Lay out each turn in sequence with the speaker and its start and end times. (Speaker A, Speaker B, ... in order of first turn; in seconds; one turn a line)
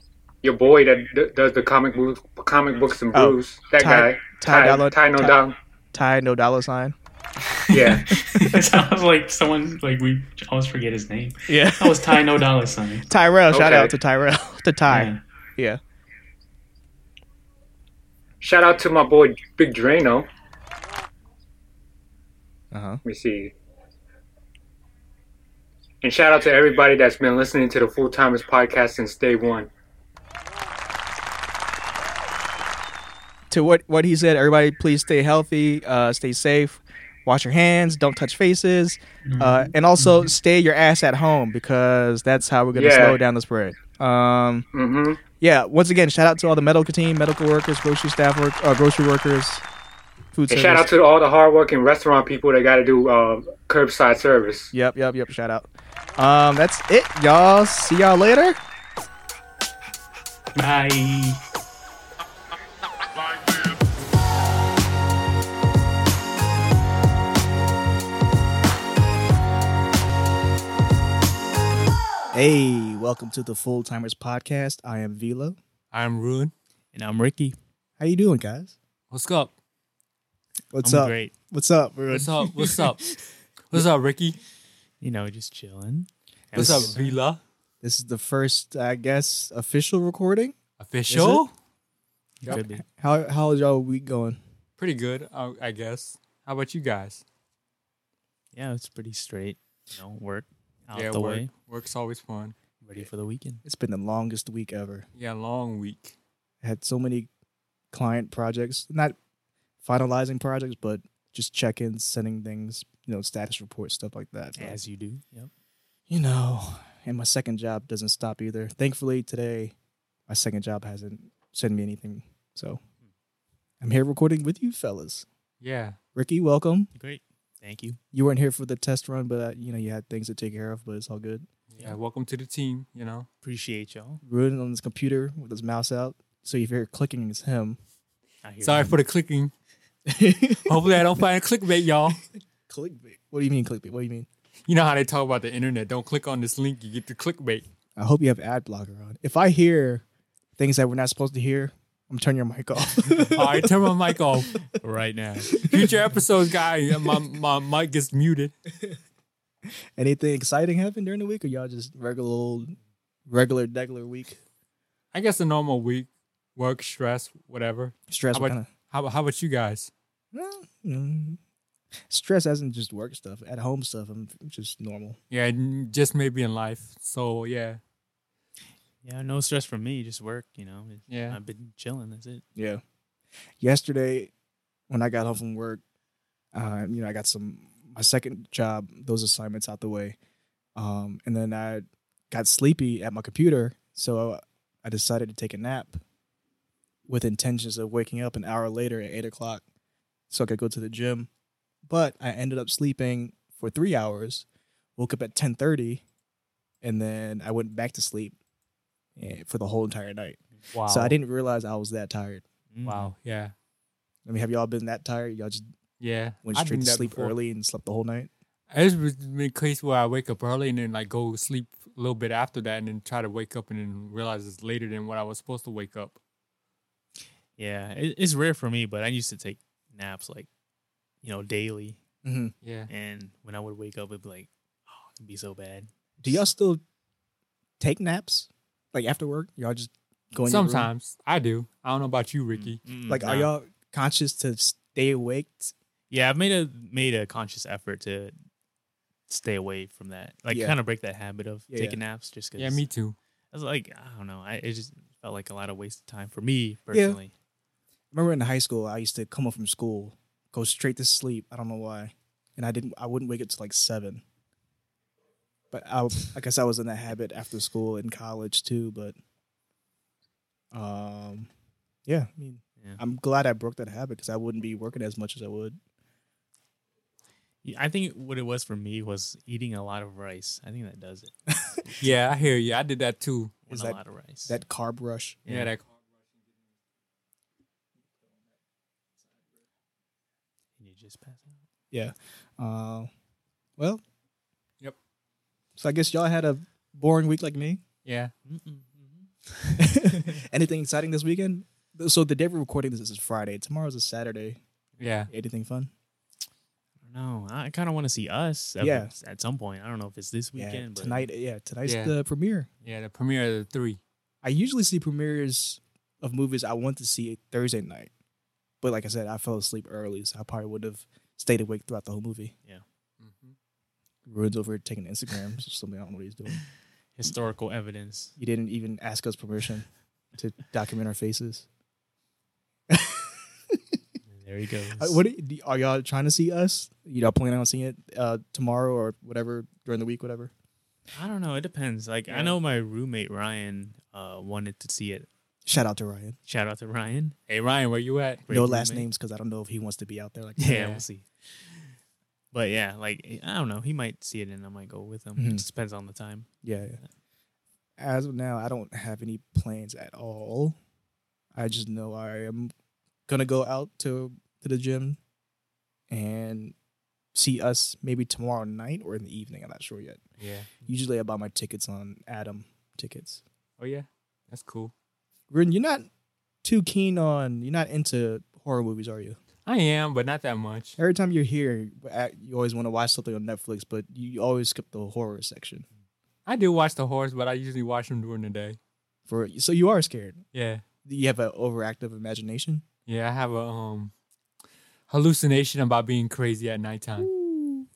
Speaker A: 0.4-5.6
Speaker B: 3.1-5.4
Speaker B: 5.9-7.0
Speaker C: 7.5-13.1
Speaker A: 7.7-8.1
Speaker B: 8.4-8.7
Speaker B: 11.5-12.2
Speaker B: 13.1-15.8
Speaker A: 13.5-13.9
Speaker C: 14.9-15.2
Speaker A: 18.4-20.3
Speaker B: 22.7-23.0
Speaker A: 23.0-23.5
Speaker A: 26.0-29.7
Speaker B: 33.5-44.7
Speaker C: 39.2-40.3
Speaker A: 42.7-43.2
Speaker A: 44.7-45.2
Speaker B: 45.4-49.6
Speaker B: 50.3-50.9
Speaker A: 50.5-54.7
Speaker B: 54.7-58.6
Speaker C: 60.6-61.4
Speaker B: 72.3-75.6
Speaker D: 75.9-76.5
Speaker E: 76.9-77.6
Speaker B: 78.0-78.8
Speaker D: 79.1-79.5
Speaker B: 80.7-82.5
Speaker E: 80.8-81.3
Speaker D: 82.1-83.1
Speaker D: 83.7-84.4
Speaker E: 85.0-87.2
Speaker B: 86.5-87.0
Speaker D: 86.5-87.4
Speaker B: 87.8-90.5
Speaker D: 90.8-91.5
Speaker B: 91.1-91.5
Speaker E: 92.4-92.8
Speaker B: 92.5-94.4
Speaker D: 94.8-97.2
Speaker E: 98.5-101.5
Speaker D: 100.9-102.5
Speaker E: 102.8-103.6
Speaker B: 103.6-105.1
Speaker D: 105.2-106.2
Speaker B: 106.6-107.3
Speaker B: 107.9-109.2
Speaker B: 109.8-114.8
Speaker E: 114.6-115.5
Speaker B: 116.1-119.7
Speaker B: 120.3-122.8
Speaker B: 123.8-125.2
Speaker D: 125.6-126.0
Speaker B: 126.2-126.9
Speaker E: 127.0-128.0
Speaker B: 128.1-131.5
Speaker D: 131.7-133.3
Speaker E: 133.4-134.2
Speaker B: 134.2-137.8
Speaker E: 138.4-139.0
Speaker D: 138.6-139.5
Speaker B: 140.1-140.7
Speaker D: 140.7-142.2
Speaker B: 142.7-144.3
Speaker D: 144.7-147.7
Speaker B: 148.0-150.0
Speaker B: 150.6-153.9
Speaker D: 153.1-154.6
Speaker E: 154.7-155.9
Speaker D: 155.5-158.5
Speaker B: 160.0-162.8
Speaker B: 163.3-164.4
Speaker D: 165.1-169.9
Speaker B: 168.1-168.7
Speaker B: 170.3-171.4
Speaker B: 172.1-175.2
Speaker D: 175.3-177.8
Speaker E: 179.0-182.4
Speaker D: 181.1-181.4
Speaker B: 182.6-182.8
Speaker B: 183.6-184.3
Speaker B: 184.9-185.8
Speaker B: 186.5-190.2
Speaker B: 190.8-196.0
Speaker B: 197.1-199.6
Speaker B: 200.3-201.3
Speaker B: 201.9-204.4
Speaker B: 205.0-206.0
Speaker B: 206.8-208.3
Speaker B: 209.2-212.4
Speaker E: 210.6-211.2
Speaker E: 212.7-213.2
Speaker D: 212.8-213.5
Speaker B: 214.3-215.7
Speaker D: 216.0-217.3
Speaker B: 216.4-218.3
Speaker D: 218.7-226.2
Speaker E: 227.6-230.5
Speaker E: 231.2-232.0
Speaker B: 232.2-232.5
Speaker D: 232.6-232.9
Speaker E: 232.9-236.4
Speaker B: 236.2-236.8
Speaker B: 237.8-240.9
Speaker D: 240.5-242.8
Speaker E: 242.5-243.5
Speaker B: 243.1-245.7
Speaker E: 246.1-248.3
Speaker E: 249.3-252.9
Speaker B: 250.5-250.8
Speaker B: 251.7-252.0
Speaker D: 252.6-253.2
Speaker E: 253.5-257.3
Speaker B: 256.9-257.2
Speaker B: 258.1-264.2
Speaker B: 265.7-269.2
Speaker B: 270.7-271.5
Speaker B: 272.1-275.8
Speaker E: 277.6-282.0
Speaker D: 282.0-283.6
Speaker E: 283.7-284.6
Speaker B: 283.7-285.4
Speaker E: 285.4-285.7
Speaker D: 285.5-285.9
Speaker E: 290.8-291.6
Speaker B: 291.9-293.1
Speaker B: 295.8-297.8
Speaker D: 298.1-298.3
Speaker E: 298.5-300.4
Speaker B: 299.8-304.6
Speaker D: 305.0-305.3
Speaker B: 305.3-305.9
Speaker E: 307.0-311.3
Speaker B: 308.8-309.1
Speaker B: 310.6-312.7
Speaker D: 311.9-312.1
Speaker D: 312.9-314.0
Speaker B: 314.4-318.1
Speaker B: 318.8-322.5
Speaker D: 323.2-323.6
Speaker B: 324.3-326.6
Speaker E: 327.2-328.4
Speaker B: 328.4-331.7
Speaker B: 332.9-333.8
Speaker E: 334.3-335.2
Speaker B: 335.0-340.5
Speaker E: 341.1-345.3
Speaker D: 342.3-342.6
Speaker B: 345.7-346.4
Speaker E: 346.5-347.4
Speaker D: 347.5-348.5
Speaker E: 348.5-349.1
Speaker B: 348.5-350.9
Speaker E: 350.6-351.9
Speaker D: 350.7-351.0
Speaker E: 352.5-357.1
Speaker B: 355.4-355.6
Speaker B: 356.6-357.0
Speaker B: 358.0-360.8
Speaker B: 361.6-362.7
Speaker B: 363.3-365.2
Speaker B: 366.1-366.7
Speaker B: 367.3-370.2
Speaker D: 370.4-370.7
Speaker B: 370.8-373.4
Speaker D: 373.8-374.9
Speaker B: 375.5-376.1
Speaker B: 376.6-379.4
Speaker D: 379.7-381.0
Speaker B: 381.0-385.9
Speaker D: 386.5-388.8
Speaker B: 389.3-390.4
Speaker D: 390.5-390.8
Speaker B: 391.0-392.8
Speaker D: 393.1-394.1
Speaker D: 395.1-397.3
Speaker E: 397.2-397.9